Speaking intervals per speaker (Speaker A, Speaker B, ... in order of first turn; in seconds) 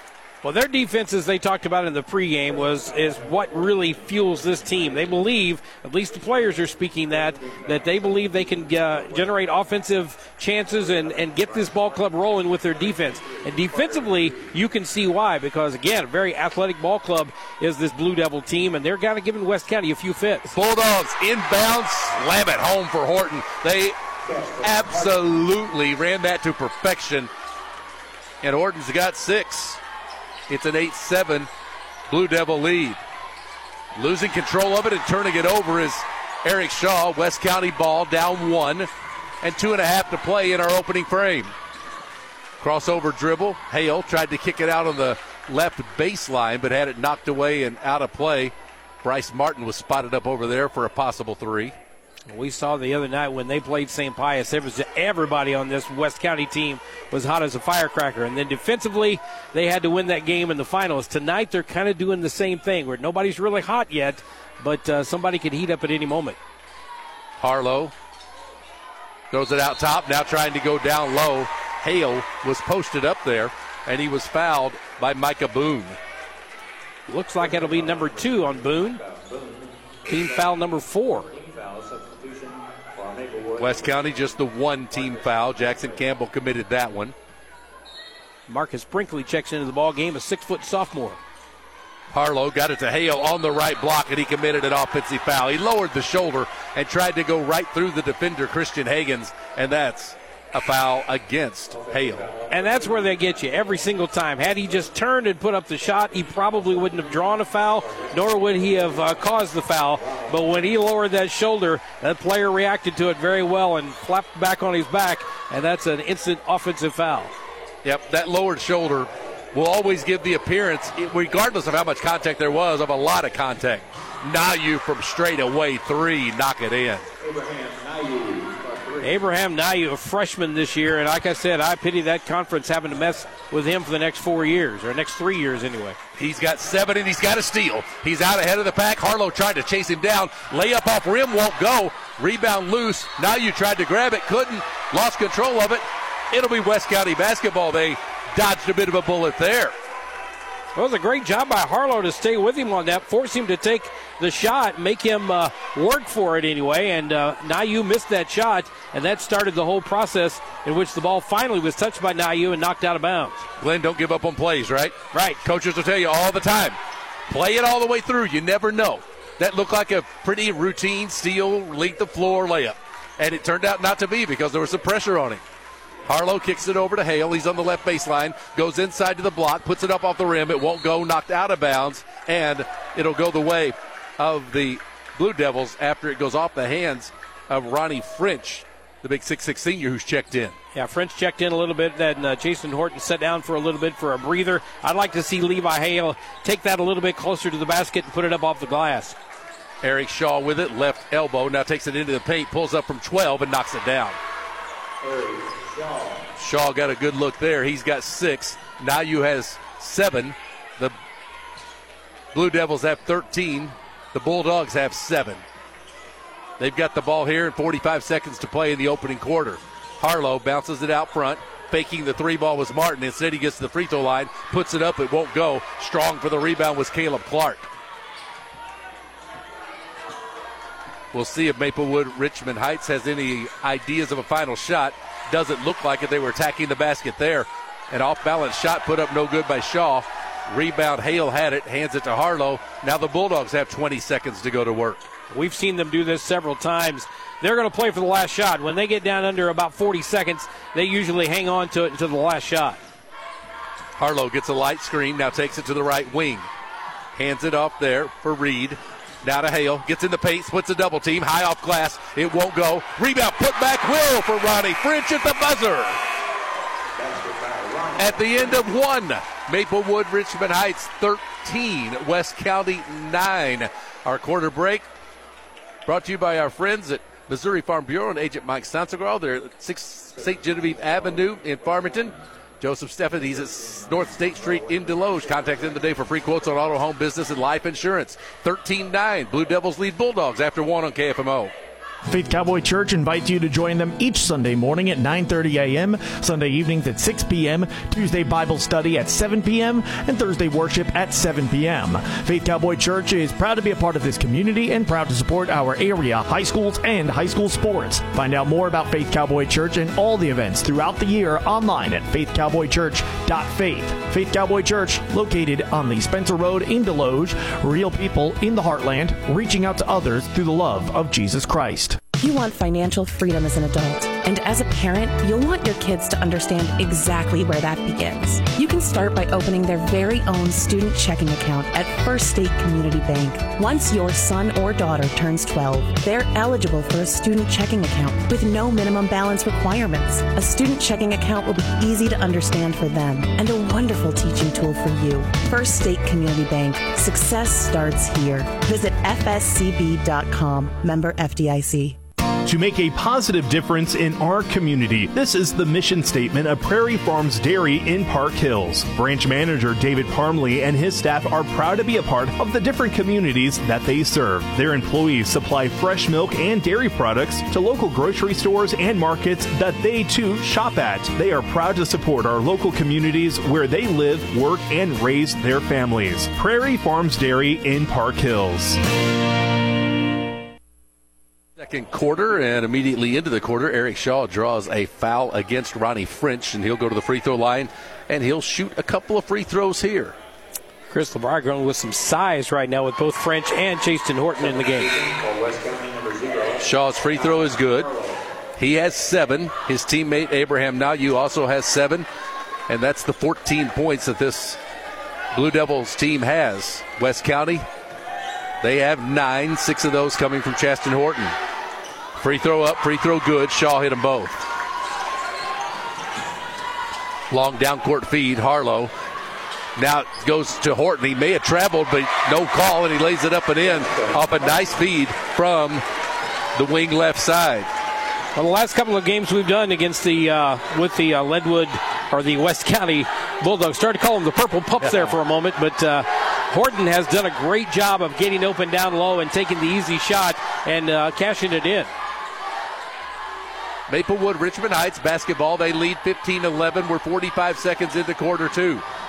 Speaker A: 0.4-20.5, 52.3-66.4, 77.1-79.0, 80.1-81.3, 88.5-91.2, 102.5-117.3, 129.0-136.0, 150.8-163.4, 165.1-165.4, 190.8-199.2, 245.3-252.8, 390.9-395.0, 428.4-441.9
Speaker B: 20.5-27.3, 28.4-29.8, 30.5-31.5, 32.1-33.0, 34.0-38.9, 39.4-41.5, 42.6-51.8, 67.4-67.9, 69.3-76.0, 83.5-87.2, 92.1-102.3, 117.8-127.1, 136.2-149.7, 163.6-166.8, 167.3-175.4, 176.1-190.6, 199.8-204.2, 206.4-210.9, 212.3-215.4, 216.6-227.7, 231.1-245.1, 254.0-256.5, 257.1-266.0, 267.9-274.9, 275.9-291.5, 381.6-390.2, 396.6-397.9, 398.6-402.1, 402.7-404.6, 405.3-407.7, 408.6-411.4, 412.2-414.4, 417.3-418.9, 419.8-425.8, 426.6-427.7, 443.9-448.8
Speaker C: 292.1-322.0
Speaker D: 322.2-352.0
Speaker E: 352.4-378.8